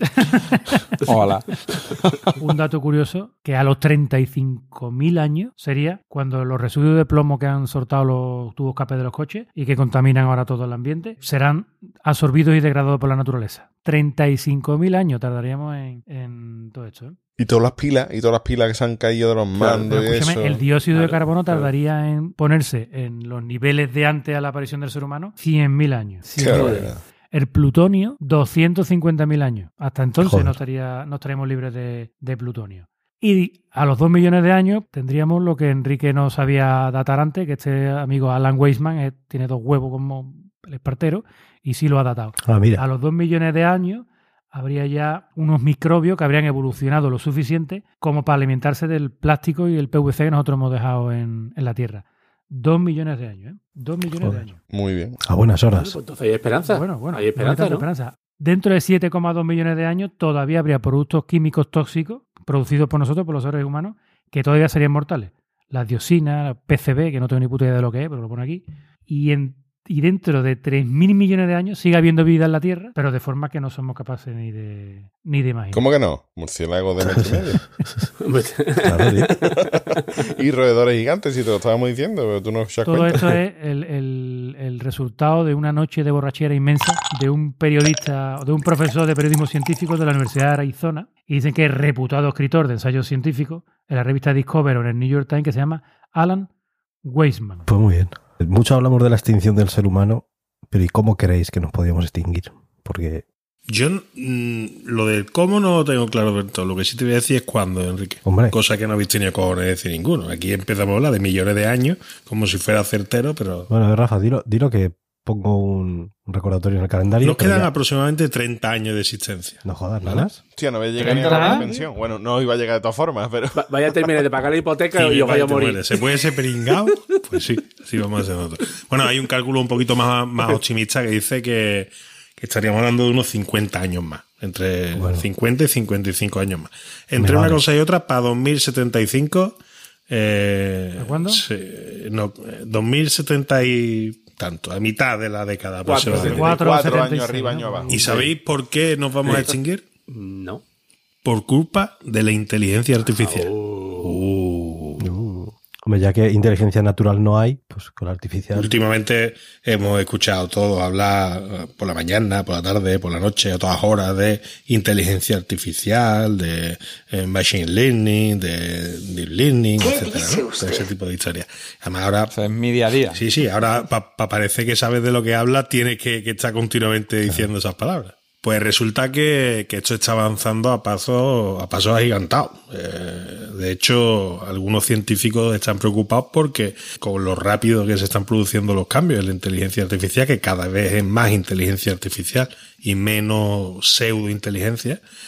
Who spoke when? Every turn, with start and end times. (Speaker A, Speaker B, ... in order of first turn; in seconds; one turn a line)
Speaker A: 0.2-0.8
Speaker B: 1.0-2.4
Speaker A: 2.4-17.2
Speaker C: 17.4-20.6
Speaker D: 19.5-19.9
Speaker A: 19.9-54.6
Speaker D: 20.9-21.7
Speaker C: 26.4-27.0
Speaker D: 26.4-26.9
Speaker E: 30.2-30.6
Speaker E: 42.4-42.8
Speaker C: 54.7-55.2
Speaker E: 55.2-56.0
Speaker D: 55.7-57.8
Speaker A: 56.6-75.8
Speaker C: 75.7-77.7
Speaker E: 77.0-78.1
Speaker D: 78.2-79.5
Speaker E: 78.8-79.3
Speaker C: 79.6-83.3
Speaker A: 82.8-96.5
Speaker A: 97.0-97.7
Speaker E: 97.7-103.2
Speaker F: 103.7-113.7
Speaker E: 108.2-108.5
Speaker E: 113.7-117.7
Speaker F: 117.2-120.3
Speaker E: 119.6-120.4
Speaker C: 120.5-124.1
Speaker B: 121.0-121.7
Speaker A: 121.2-121.8
Speaker D: 123.5-126.0
Speaker F: 124.9-146.6
Speaker E: 134.9-135.2
Speaker E: 137.2-137.6
Speaker A: 141.0-141.4
Speaker D: 145.8-146.7
Speaker A: 146.1-148.2
Speaker C: 146.5-147.9
Speaker D: 147.9-148.3
Speaker F: 147.9-149.8
Speaker D: 149.3-149.5
Speaker D: 150.1-150.6
Speaker F: 151.2-153.5
Speaker D: 153.0-154.2
Speaker F: 154.0-155.1
Speaker E: 155.0-158.7
Speaker F: 158.5-172.3
Speaker B: 172.3-173.2
Speaker F: 173.1-195.0